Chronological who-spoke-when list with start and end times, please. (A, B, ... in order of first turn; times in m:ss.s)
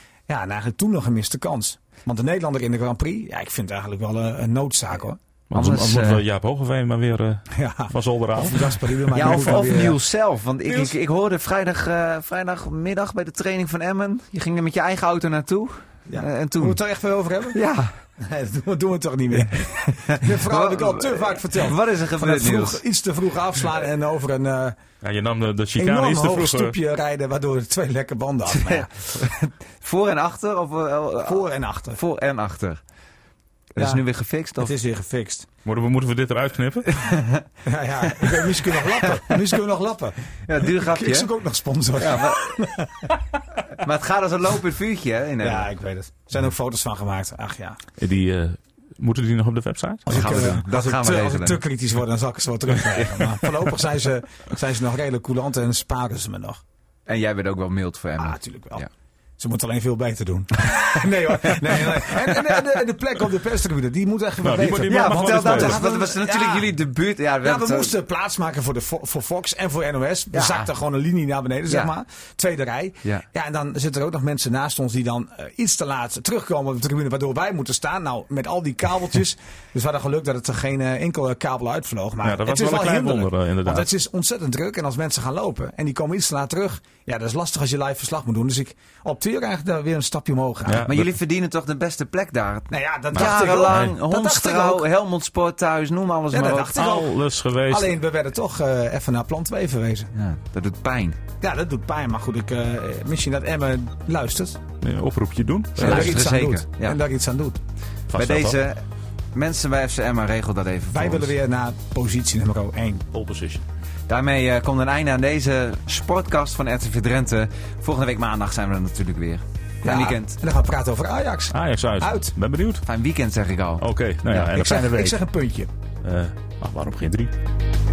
0:00.3-0:05.2 A
0:05.5-0:09.7 B
0:05.5-0:06.2 C
0:07.5-0:10.0 A
0:09.1-0:16.8 C
0:16.1-0:17.6 A
0:17.5-0:17.9 C
0:18.2-0:24.8 A
0:19.4-0:22.8 C
0:25.0-0:26.7 B
0:25.8-0:28.9 A
0:28.5-0:32.8 C
0:31.2-0:32.0 A
0:33.7-0:34.7 C
0:33.8-0:34.0 A
0:34.6-0:35.4 A
0:35.6-0:37.0 B
0:36.9-0:37.4 C
0:37.6-0:40.2 A
0:38.2-0:39.3 C
0:40.5-0:41.3 C
0:40.8-0:43.1 A
0:42.0-0:42.7 C
0:43.8-0:45.7 C
0:45.4-0:47.8 A
0:48.0-0:50.6 B
0:50.0-0:56.6 A
0:50.1-0:51.6 C
0:57.0-0:58.9 C
0:58.2-0:58.8 A
0:59.4-1:06.8 A
1:01.6-1:02.6 C
1:04.4-1:05.8 B
1:04.8-1:08.0 C
1:07.4-1:30.9 A
1:10.3-1:10.7 C
1:11.7-1:11.9 C
1:22.2-1:23.9 B
1:30.6-1:31.1 B
1:30.8-1:36.7 C
1:32.7-1:34.8 A
1:33.1-1:34.0 B
1:36.3-1:40.1 A
1:36.7-1:37.9 B
1:40.1-1:41.2 C
1:41.4-1:44.6 A
1:44.8-1:46.2 B
1:45.8-1:47.0 C
1:45.8-1:47.6 A
1:48.1-1:48.6 B
1:48.1-1:51.3 C
1:50.9-1:53.1 A
1:53.1-1:53.6 B
1:54.1-2:00.4 C
1:59.8-2:02.3 A
2:01.5-2:02.8 B
2:02.8-2:04.5 C
2:03.8-2:05.2 B
2:04.5-2:05.7 A
2:06.0-2:07.3 B